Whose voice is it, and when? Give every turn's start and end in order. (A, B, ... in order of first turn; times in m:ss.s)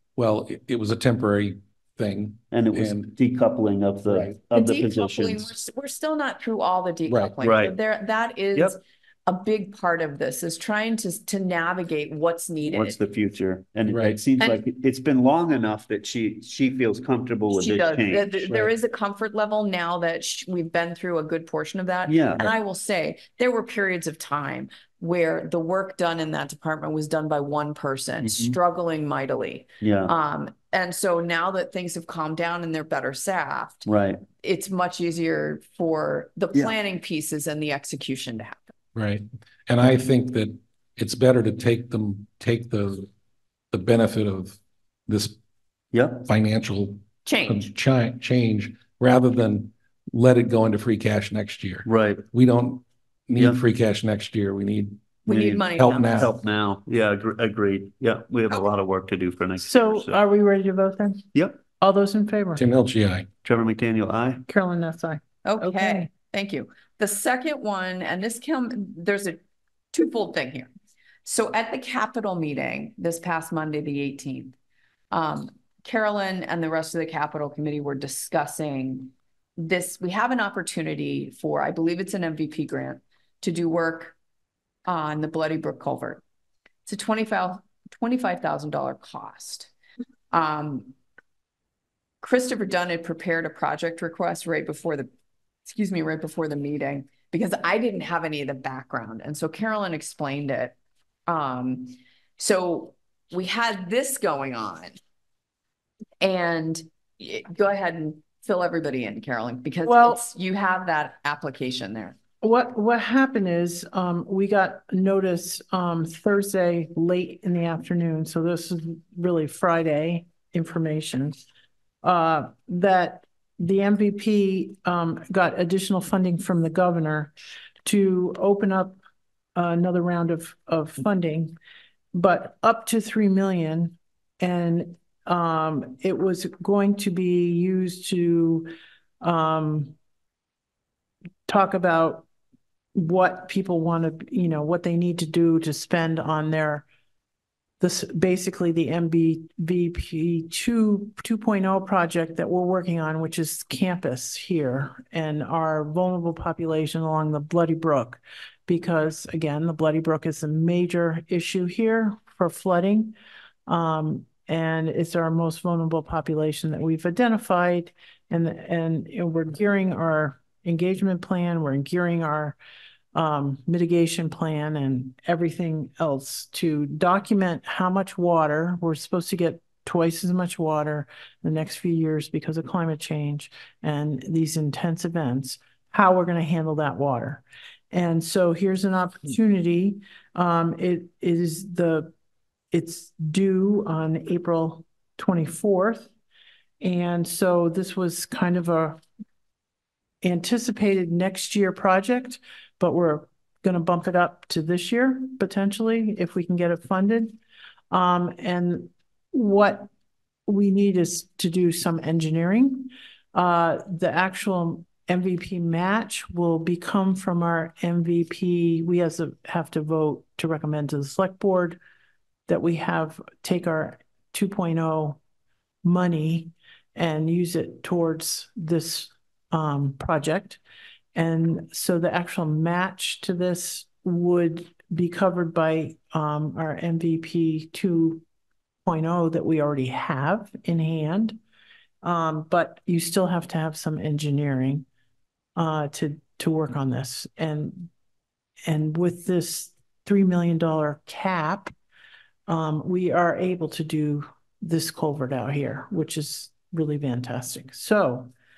0:00.2-0:03.1 A
0:02.5-0:05.5 B
0:04.0-0:04.4 A
0:04.5-0:13.0 C
0:07.1-0:07.4 A
0:07.4-0:07.8 B
0:12.7-0:18.7 B
0:13.9-0:14.2 A
0:17.5-0:38.6 C
0:22.1-0:22.5 B
0:28.2-0:28.6 B
0:29.8-0:30.1 B
0:33.8-0:34.2 B
0:38.9-0:43.1 A
0:43.7-0:45.4 A
0:45.9-0:46.3 B
0:46.2-0:56.3 A
0:47.2-0:47.7 C
0:51.8-0:52.2 B
0:53.4-0:53.6 B
0:55.2-0:56.3 C
0:55.3-1:00.2 B
0:59.6-1:01.2 D
1:01.3-1:01.6 B
1:01.8-1:02.6 D
1:02.6-1:03.3 A
1:03.4-1:04.4 B
1:04.5-1:06.1 D
1:05.4-1:09.4 C
1:09.9-1:10.7 C
1:11.2-1:14.5 C
1:15.1-1:24.1 C
1:24.8-1:26.2 C
1:26.8-1:29.7 C
1:30.3-1:30.9 C
1:32.2-1:35.1 C
1:35.6-1:40.7 C
1:41.3-1:45.0 C
1:46.2-1:52.2 C
1:49.8-1:50.2 D
1:52.4-2:01.4 D
2:02.0-2:07.3 D
2:07.8-2:09.0 D
2:09.5-2:11.6 D
2:12.1-2:18.7 D
2:19.2-2:19.9 D
2:21.5-2:22.3 D
2:22.9-2:26.8 D
2:27.8-2:43.2 D
2:43.7-2:52.6 D
2:53.1-3:12.1 D
3:12.7-3:16.1 D
3:16.8-3:19.0 D
3:20.2-3:27.4 D
3:27.9-3:29.9 D
3:30.5-3:41.8 D
3:42.5-3:45.2 D
3:45.8-3:50.6 D
3:51.1-3:58.2 D
3:58.8-4:01.4 D
4:02.0-4:04.8 D
4:05.6-4:07.9 D
4:08.6-4:11.7 D
4:12.5-4:18.3 D